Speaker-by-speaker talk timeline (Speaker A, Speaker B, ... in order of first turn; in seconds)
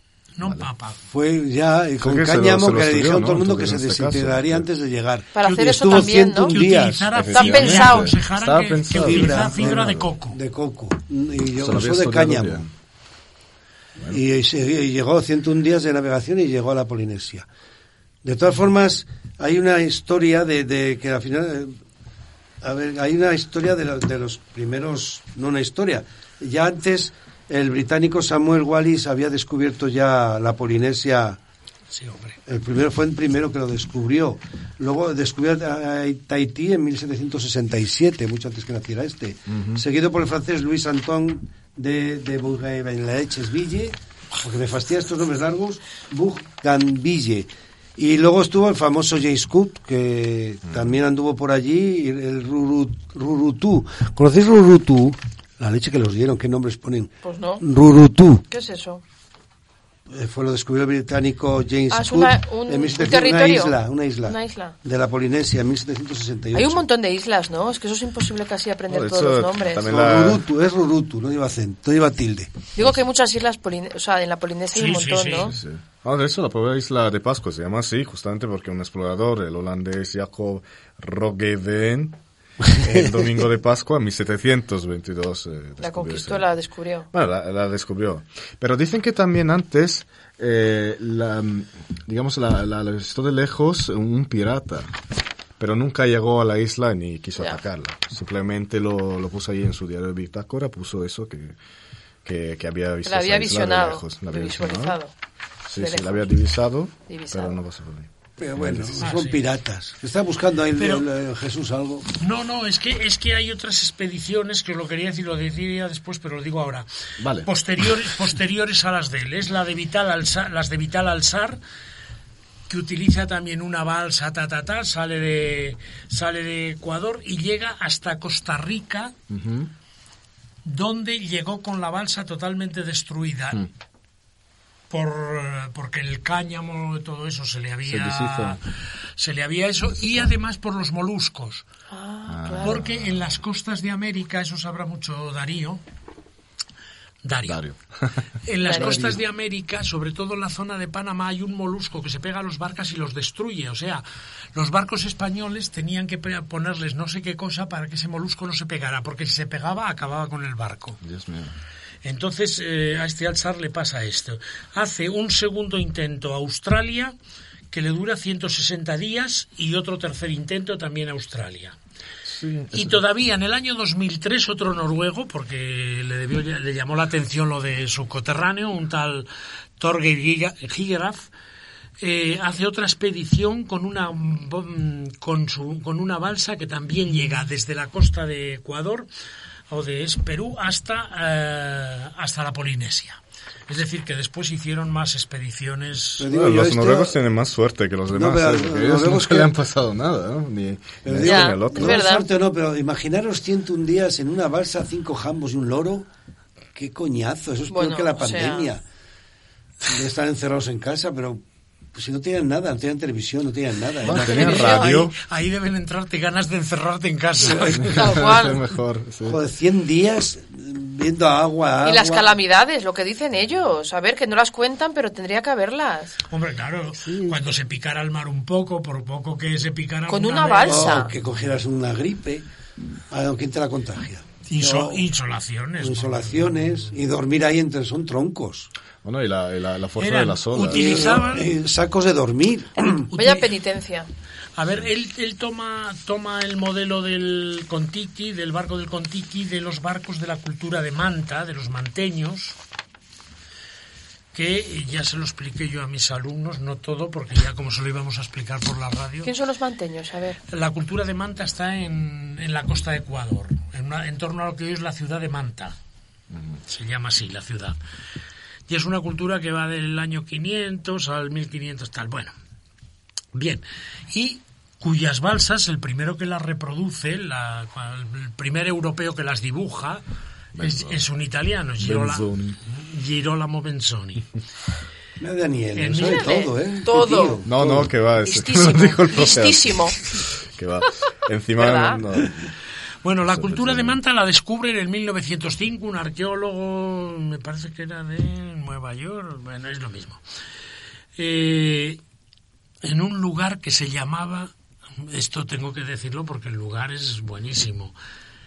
Speaker A: 0.3-1.0, 5.4-10.4, 31.9-32.4, 74.7-75.5, 109.0-109.4, 110.8-111.0, 112.2-116.9, 117.4-121.6, 122.7-129.1, 130.6-133.7, 134.9-138.6, 139.2-141.6, 142.6-145.8, 147.2-147.6, 148.4-154.0, 154.5-161.0, 162.0-167.1, 167.7-171.7, 172.7-181.3, 182.0-189.1, 189.7-196.3, 214.3-218.2, 226.3-231.0, 234.5-236.9, 240.0-241.5, 242.9-243.5, 244.6-252.6, 254.3-259.3, 260.5-265.7, 266.7-267.8, 268.7-272.3, 273.3-280.0, 280.6-284.3, 285.8-286.4, 293.0-300.2, 301.1-302.0, 302.8-307.9
Speaker B: 1.1-7.1, 8.9-12.7, 14.0-17.5, 18.2-21.7, 22.6-31.4, 32.5-58.4, 60.1-66.8, 69.8-72.6, 82.7-83.1, 108.4-112.1, 196.2-197.2, 198.1-199.6, 201.0-206.1, 206.7-208.8, 209.8-211.4, 211.9-214.8, 217.4-217.8, 219.2-222.3, 230.6-232.4, 233.1-235.1, 235.8-238.7, 240.7-243.1, 285.2-287.9
Speaker C: 2.0-4.6, 7.1-10.1, 11.6-12.7, 39.5-39.8, 68.9-70.4, 75.4-86.5, 87.1-94.9, 95.6-101.5, 102.2-105.0, 105.7-109.0, 117.2-117.5, 129.3-129.7, 137.9-138.6, 142.3-143.3, 147.5-148.1, 148.8-149.1, 161.0-161.5, 172.3-173.0, 196.3-202.0, 214.0-215.1, 217.7-219.4, 227.0-227.4, 239.0-241.2, 280.6-281.0, 281.8-282.6, 287.4-292.5, 293.3-294.0
Speaker D: 5.3-6.6, 7.3-8.1, 57.2-57.6, 58.5-59.0, 61.9-64.8, 66.5-69.9, 72.7-75.5, 85.8-87.1, 103.0-105.1, 105.8-106.3, 107.1-107.6, 141.9-142.8, 148.6-149.0, 201.2-202.2, 207.7-208.7, 214.1-215.1, 217.8-218.6, 221.8-226.2, 230.1-231.1, 243.1-244.1, 259.2-260.4, 286.0-287.4, 288.2-290.0, 291.6-292.0